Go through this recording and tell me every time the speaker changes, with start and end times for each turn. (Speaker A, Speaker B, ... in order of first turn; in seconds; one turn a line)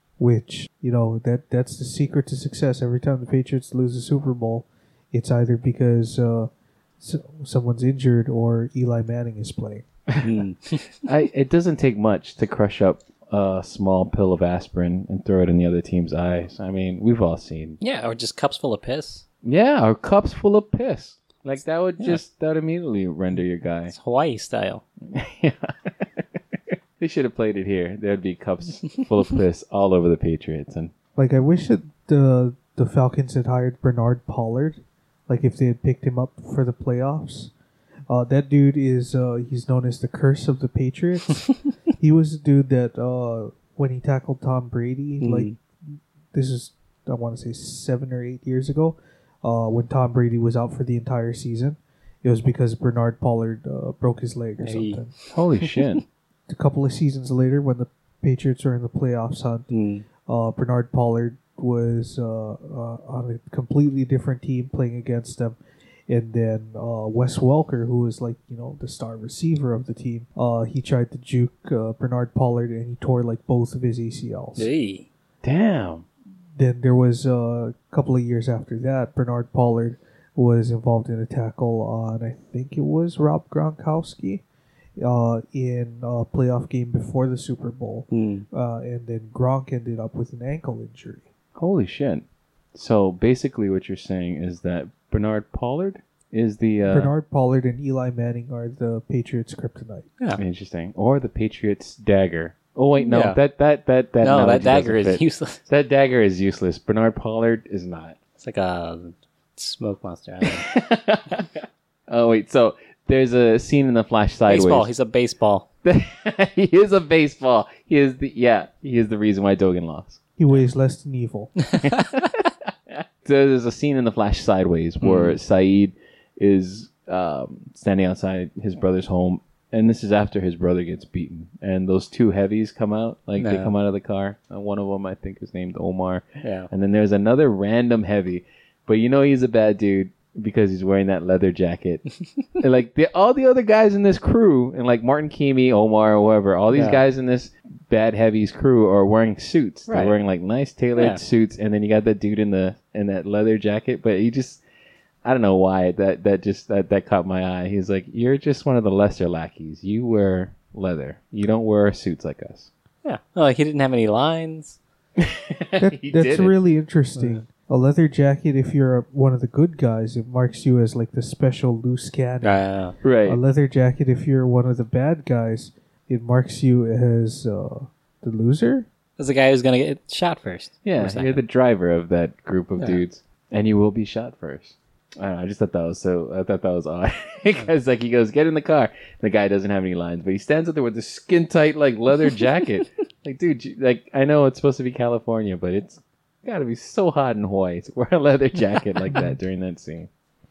Speaker A: 0.2-9.8
Speaker B: 10.2-11.0
Speaker C: 11.0-17.8
Speaker B: 17.8-19.2
Speaker C: 19.4-23.9
Speaker B: 23.9-24.8
Speaker C: 25.1-30.9
Speaker A: 31.1-37.5
Speaker A: 38.1-45.5
Speaker B: 45.2-45.6
Speaker A: 46.3-55.1
Speaker B: 54.6-56.0
Speaker C: 55.3-56.0
Speaker A: 56.5-59.7
Speaker B: 59.7-60.0
Speaker A: 60.2-74.7
Speaker B: 74.5-75.1
Speaker C: 75.4-76.0
Speaker A: 76.5-84.4
Speaker A: 85.0-91.2
Speaker B: 88.1-88.5
Speaker C: 91.5-97.1
Speaker A: 96.9-100.1
Speaker C: 100.4-108.2
Speaker B: 103.0-103.4
Speaker B: 104.2-105.6
Speaker B: 108.4-110.7
Speaker C: 110.4-114.9
Speaker B: 114.5-115.7
Speaker C: 115.8-120.2
Speaker A: 120.4-121.5
Speaker B: 121.7-122.1
Speaker C: 121.8-142.0
Speaker B: 125.0-125.4
Speaker B: 133.4-133.7
Speaker B: 136.4-136.7
Speaker C: 142.6-154.6
Speaker B: 146.7-147.0
Speaker B: 149.9-150.2
Speaker B: 150.9-151.2
Speaker C: 155.2-162.7
Speaker B: 163.0-164.8
Speaker C: 165.2-166.6
Speaker A: 165.8-172.7
Speaker B: 167.2-167.4
Speaker B: 172.4-172.9
Speaker C: 173.0-173.4
Speaker A: 173.2-178.9
Speaker B: 179.2-181.4
Speaker C: 180.8-200.1
Speaker B: 199.0-199.3